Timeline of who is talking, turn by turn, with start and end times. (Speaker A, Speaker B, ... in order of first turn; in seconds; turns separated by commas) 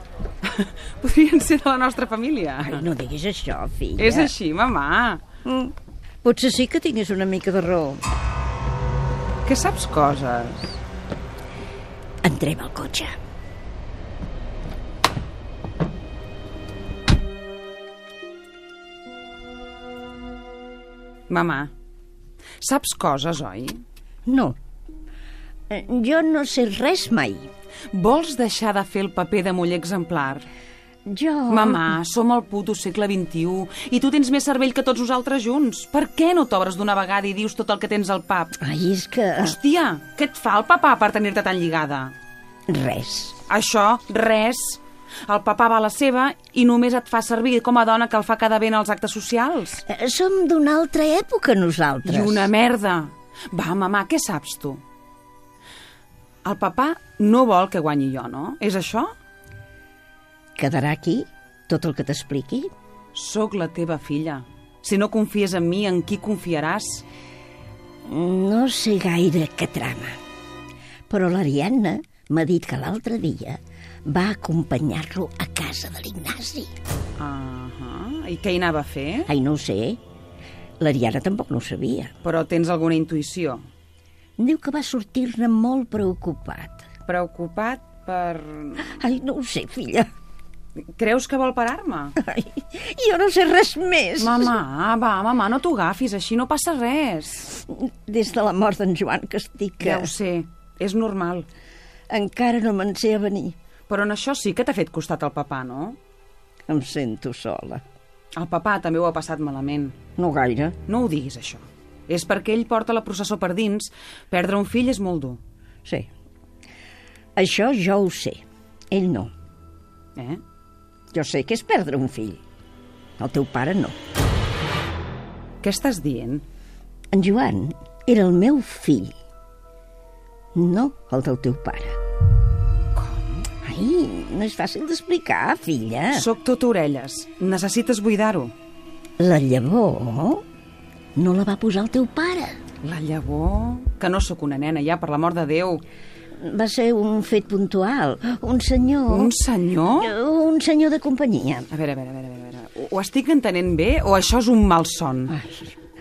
Speaker A: 0.4-2.8, Speaker B: 2.6-4.3, Speaker A: 4.0-5.2, Speaker B: 5.4-8.0, Speaker A: 9.4-10.6, Speaker B: 12.2-13.1, Speaker A: 21.3-21.7, Speaker A: 22.6-23.8, Speaker B: 24.2-24.6, Speaker B: 25.7-27.5, Speaker A: 27.9-30.4, Speaker B: 31.1-31.9, Speaker A: 31.5-38.5, Speaker B: 38.6-39.6, Speaker A: 39.4-42.1, Speaker B: 42.7-43.3, Speaker A: 43.5-49.8, Speaker B: 49.9-52.5, Speaker A: 52.0-54.8, Speaker A: 56.4-59.1, Speaker B: 60.5-62.7, Speaker A: 63.1-67.0, Speaker B: 68.0-70.2, Speaker B: 71.1-76.7, Speaker A: 77.2-79.3, Speaker B: 79.3-80.0, Speaker B: 80.8-82.1, Speaker A: 82.2-83.6, Speaker B: 84.4-86.8, Speaker A: 87.1-88.9, Speaker B: 88.9-90.1, Speaker A: 90.9-92.2, Speaker B: 92.2-94.6, Speaker A: 94.2-97.5, Speaker B: 97.7-100.1, Speaker A: 99.8-101.5, Speaker B: 102.1-103.5, Speaker A: 103.9-106.0, Speaker B: 106.7-107.8, Speaker A: 108.4-109.9, Speaker B: 110.2-110.8, Speaker A: 110.9-115.4, Speaker B: 117.3-118.4, Speaker B: 118.9-119.3, Speaker A: 120.2-120.4, Speaker B: 121.1-122.4, Speaker B: 123.2-123.9, Speaker A: 125.6-126.4, Speaker B: 127.1-129.1, Speaker B: 130.5-132.0, Speaker A: 132.9-133.4, Speaker B: 133.6-136.3, Speaker A: 136.1-138.5, Speaker B: 139.2-140.4, Speaker B: 141.2-142.6, Speaker A: 142.8-145.8, Speaker B: 146.4-149.3, Speaker A: 149.1-150.1, Speaker B: 149.9-151.7, Speaker A: 151.7-155.3, Speaker B: 155.3-155.7